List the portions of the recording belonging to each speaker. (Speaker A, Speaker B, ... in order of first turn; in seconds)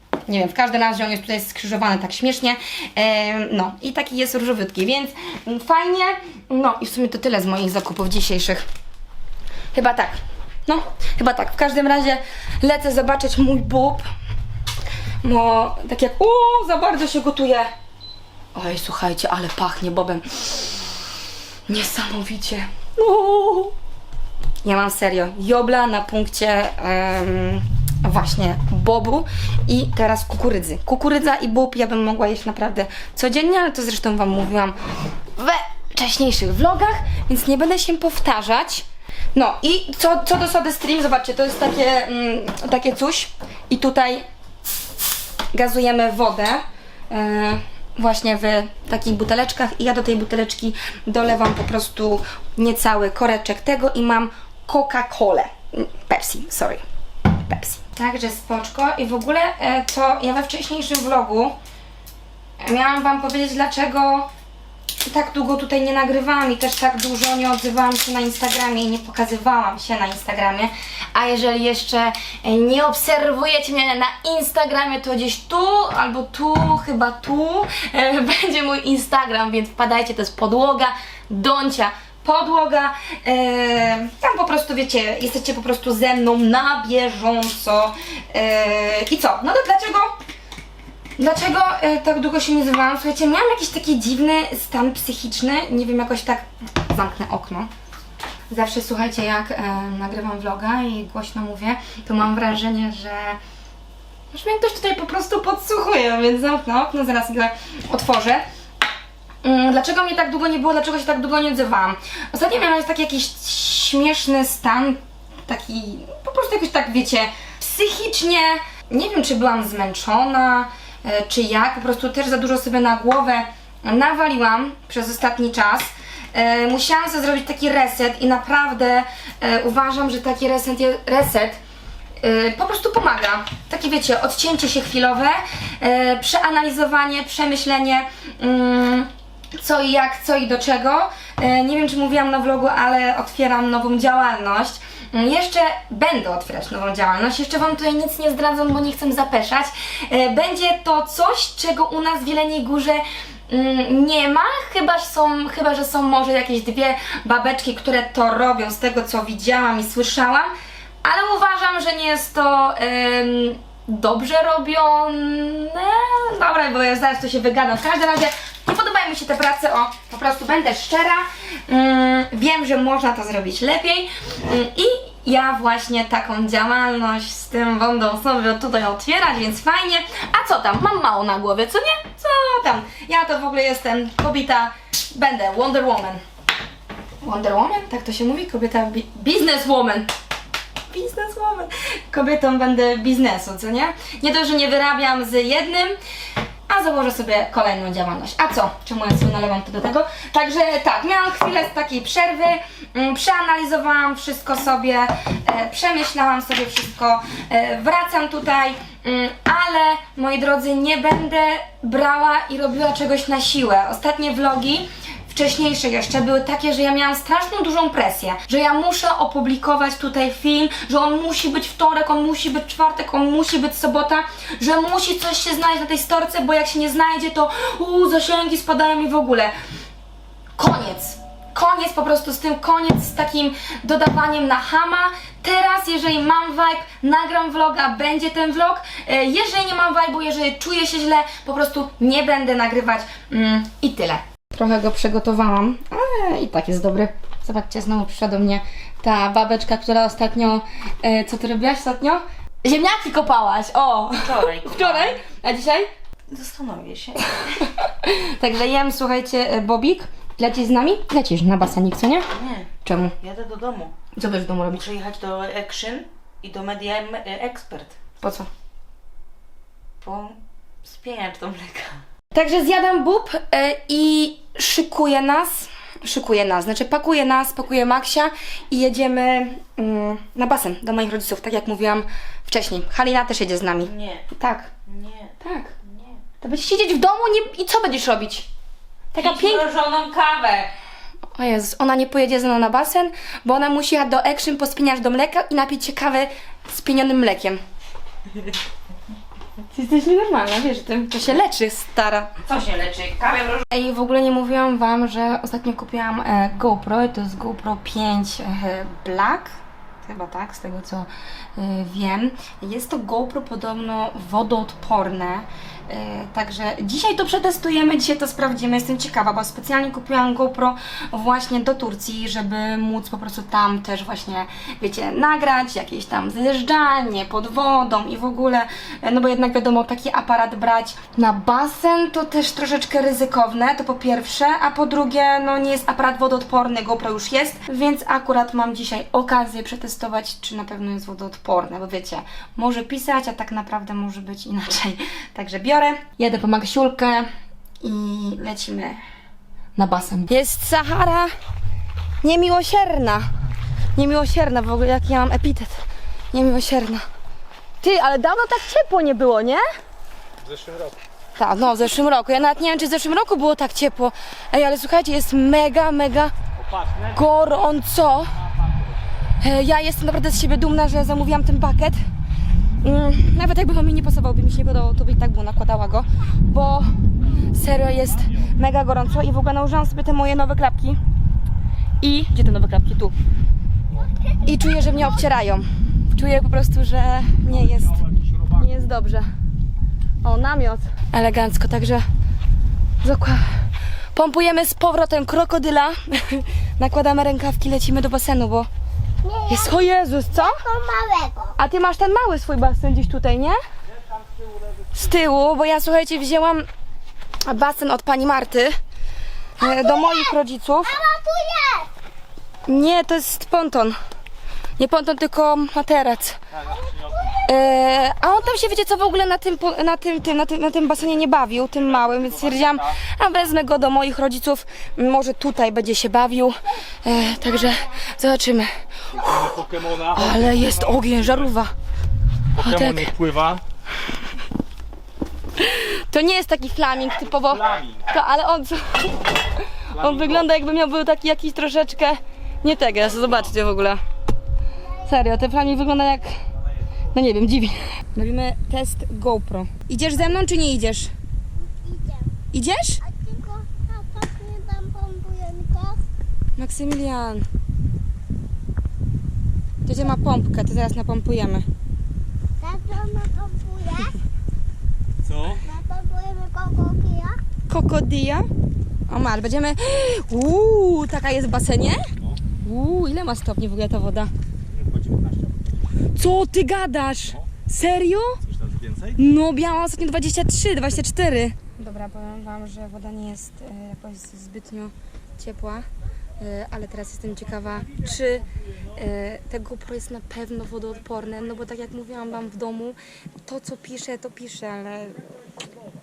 Speaker A: 0.3-8.6, 9.7-14.0, 15.2-17.7, 18.5-20.2, 21.7-23.7, 24.6-34.8, 35.3-44.2, 45.5-56.8, 57.3-61.5, 62.6-64.3, 65.0-90.1, 91.2-97.7, 98.5-103.4, 104.3-108.4, 109.4-131.6, 132.2-160.5, 161.0-186.2, 187.2-190.1, 190.9-195.9, 196.7-229.5, 230.6-255.9, 257.4-262.2, 262.8-263.1, 264.1-264.9, 268.2-268.5, 272.3-284.7, 285.4-285.7, 286.4-288.5, 289.1-289.7, 291.3-297.6, 299.7-302.3, 303.7-347.3, 347.8-349.0, 349.8-351.3, 352.2-353.2, 353.9-357.0, 357.8-359.6, 361.4-366.3, 367.1-368.3, 369.4-372.0, 372.8-381.0, 382.0-383.1, 384.4-389.3, 390.2-392.1, 393.0-398.7, 399.5-400.6, 401.6-403.6, 404.9-406.7, 407.4-408.8, 409.6-410.9, 412.7-414.0, 414.8-416.4, 417.3-431.7, 432.6-433.2, 435.6-444.0, 445.0-446.4, 447.1-451.1, 452.5-453.0, 456.6-457.4, 459.8-461.6, 467.7-468.5, 469.1-472.1, 472.6-474.3, 476.1-478.4, 479.1-485.9, 486.4-495.2
Speaker B: 254.2-255.2, 256.3-257.6, 262.3-262.7, 263.2-263.9, 264.7-267.9, 270.0-272.0, 283.8-284.2, 284.9-286.2, 289.2-290.7, 302.4-303.7
Speaker C: 366.7-367.1, 429.6-430.1, 432.6-433.6, 474.9-475.2, 478.5-479.1
Speaker D: 399.2-401.6, 409.6-411.9, 427.1-427.9, 444.8-445.4, 451.6-452.3, 453.0-456.0, 462.6-464.2, 465.4-467.4